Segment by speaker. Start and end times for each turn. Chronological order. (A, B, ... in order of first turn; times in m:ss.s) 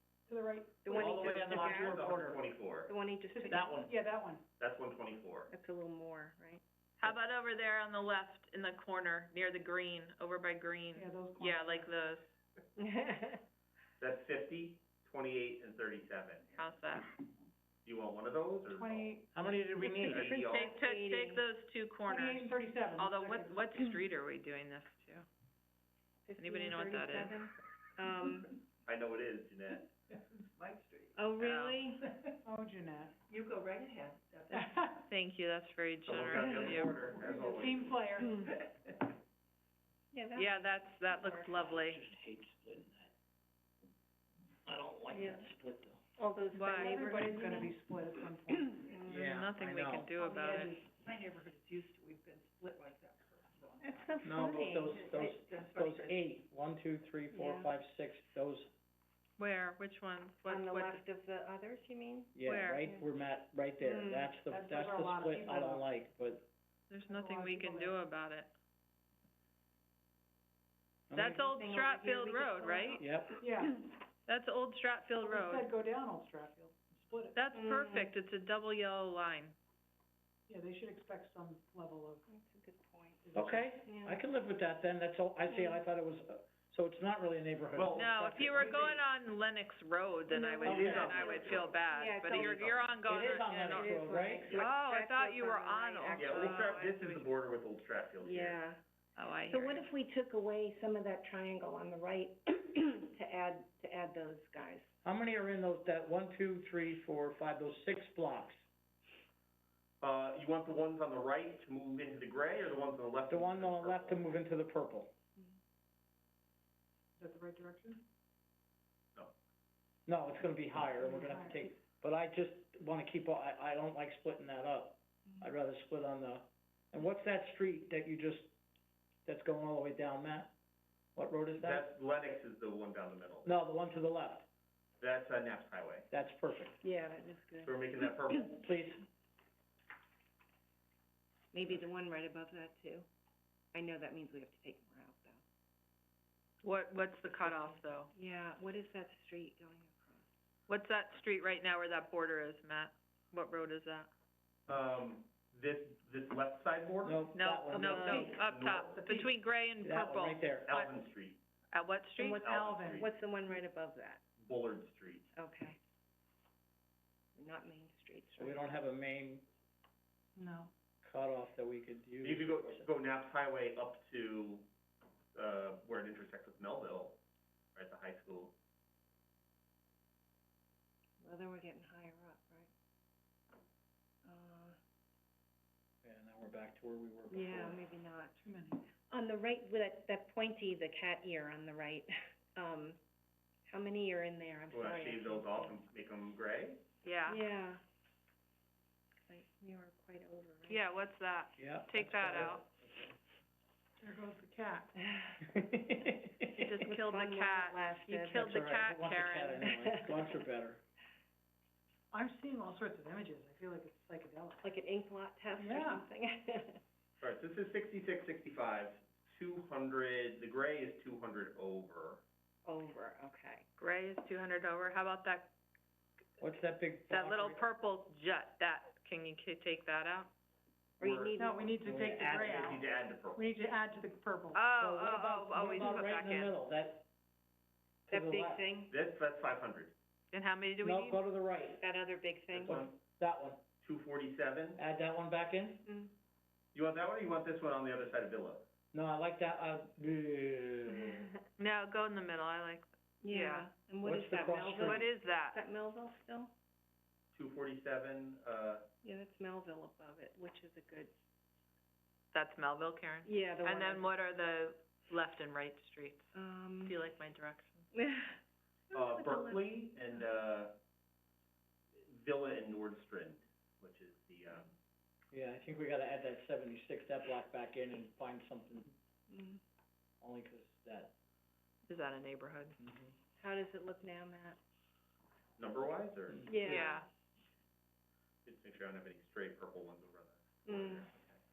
0:00.3-0:01.1 A
0:00.8-0:02.0 B
0:00.9-0:02.4 C
0:01.0-0:02.9 D
0:02.8-0:03.8 B
0:03.3-0:04.4 A
0:03.5-0:03.9 C
0:04.6-0:05.5 D
0:05.5-0:06.6 B
0:07.0-0:12.3 E
0:10.9-0:11.9 A
0:12.8-0:13.4 B
0:14.0-0:16.5 D
0:16.6-0:17.1 E
0:17.8-0:19.1 D
0:18.7-0:20.0 A
0:19.4-0:20.4 C
0:19.9-0:21.4 B
0:20.0-0:20.7 D
0:20.5-0:25.3 E
0:22.0-0:23.6 A
0:26.3-0:28.6 B
0:26.4-0:27.4 E
0:28.9-0:29.9 D
0:30.3-0:31.2 F
0:31.2-0:32.2 B
0:31.4-0:31.8 E
0:32.4-0:33.2 A
0:33.3-0:34.8 F
0:34.5-0:35.1 A
0:35.0-0:37.0 E
0:36.0-0:37.9 D
0:36.4-0:36.8 B
0:37.2-0:38.6 A
0:40.1-0:41.7 B
0:40.3-0:42.0 E
0:41.8-0:43.1 C
0:44.7-0:46.0 C
0:45.1-0:45.5 B
0:46.2-0:47.8 B
0:46.5-0:47.0 E
0:46.7-0:49.1 A
0:48.9-0:49.2 B
0:49.0-0:50.1 C
0:49.1-0:50.7 E
0:50.2-0:51.4 A
0:50.7-0:54.2 F
0:53.8-0:55.4 B
0:54.2-0:58.7 C
0:55.0-0:56.2 F
0:57.3-0:57.7 B
0:59.4-1:01.0 E
1:00.4-1:03.1 B
1:02.4-1:06.4 C
1:02.4-1:02.9 E
1:03.8-1:04.4 B
1:04.4-1:05.9 A
1:06.9-1:08.5 E
1:07.0-1:08.0 A
1:11.1-1:11.5 C
1:11.1-1:13.0 E
1:11.5-1:13.6 B
1:13.0-1:13.4 C
1:13.4-1:13.8 A
1:14.3-1:15.7 E
1:15.2-1:17.4 A
1:17.3-1:19.6 E
1:17.5-1:18.1 B
1:20.5-1:22.2 A
1:22.3-1:23.3 B
1:23.2-1:23.7 A
1:23.3-1:29.0 C
1:23.8-1:24.2 B
1:25.5-1:25.8 B
1:27.7-1:28.9 D
1:27.9-1:34.0 E
1:30.3-1:32.8 B
1:30.6-1:32.8 D
1:30.6-1:31.2 C
1:33.0-1:34.5 C
1:33.7-1:37.0 B
1:34.5-1:34.7 D
1:34.5-1:37.2 E
1:36.2-1:38.6 D
1:38.2-1:38.8 B
1:39.2-1:39.9 E
1:39.4-1:44.9 B
1:45.0-1:48.6 C
1:50.0-1:54.3 D
1:53.3-1:55.1 C
1:57.2-1:58.0 A
2:00.1-2:08.5 C
2:01.0-2:01.6 A
2:09.2-2:10.5 C
2:11.2-2:11.9 C
2:11.6-2:13.5 D
2:13.4-2:14.5 C
2:15.0-2:16.1 D
2:16.1-2:16.8 C
2:16.8-2:17.8 B
2:17.6-2:18.6 D
2:18.5-2:19.0 C
2:21.5-2:23.1 B
2:23.7-2:25.4 B
2:26.6-2:28.1 E
2:27.3-2:30.2 B
2:30.7-2:34.1 E
2:34.7-2:37.3 D
2:37.0-2:38.4 C
2:37.3-2:40.4 E
2:37.8-2:38.4 A
2:38.3-2:39.0 D
2:39.0-2:39.3 A
2:39.8-2:40.8 C
2:40.7-2:41.4 D
2:41.7-2:42.5 E
2:42.2-2:43.0 A
2:42.3-2:43.1 D
2:42.9-2:44.2 B
2:44.4-2:45.2 D
2:45.3-2:45.8 B
2:47.4-2:48.6 B
2:48.4-2:49.4 C
2:50.4-2:50.7 A
2:51.0-2:52.9 C
2:52.2-2:54.7 D
2:55.3-2:57.2 D
2:57.8-2:58.5 D
3:01.2-3:02.7 B
3:04.2-3:04.8 B
3:06.0-3:07.8 C
3:07.3-3:08.4 B
3:08.4-3:08.9 A
3:09.1-3:13.0 B
3:13.7-3:15.8 B
3:14.7-3:16.8 D
3:17.0-3:17.4 E
3:17.3-3:17.8 B
3:19.3-3:21.0 B
3:20.7-3:22.6 E
3:21.6-3:22.6 C
3:24.0-3:24.9 A
3:25.5-3:26.7 C
3:26.5-3:29.7 E
3:26.8-3:28.5 B
3:28.3-3:30.8 C
3:32.1-3:34.7 A
3:34.6-3:36.8 B
3:35.6-3:36.0 A
3:37.2-3:42.2 D
3:42.6-3:43.6 B
3:43.8-3:45.5 E
3:46.4-3:47.6 C
3:47.1-3:50.3 E
3:51.0-3:51.4 D
3:51.0-3:51.8 B
3:51.4-3:54.6 A
3:51.8-3:52.8 C
3:52.1-3:53.5 D
3:54.5-3:56.5 E
3:54.8-3:57.0 C
3:58.1-3:58.6 C
3:58.1-3:58.9 B
3:58.9-3:59.9 D
4:00.3-4:01.2 E
4:00.8-4:01.8 C
4:01.8-4:02.8 B
4:02.5-4:02.9 D
4:02.6-4:03.6 C
4:03.8-4:04.8 D
4:04.8-4:05.8 C
4:05.9-4:06.1 B
4:06.7-4:08.6 D
4:08.9-4:11.3 C
4:11.6-4:13.7 E
4:13.2-4:16.5 B
4:14.0-4:15.1 C
4:14.7-4:15.6 E
4:17.3-4:18.8 D
4:19.0-4:21.1 B
4:22.3-4:27.9 E
4:23.2-4:24.1 B
4:26.3-4:27.0 B
4:27.9-4:28.4 B
4:28.9-4:30.2 B
4:28.9-4:30.8 D
4:32.0-4:34.7 D
4:35.3-4:38.9 C
4:39.3-4:39.6 B
4:40.2-4:41.1 C
4:41.9-4:42.8 E
4:42.8-4:43.1 C
4:43.4-4:44.6 B
4:45.6-4:46.5 D
4:46.3-4:46.9 C
4:46.4-4:47.1 B
4:46.6-4:47.0 E
4:48.4-4:51.4 D
4:50.6-4:51.1 B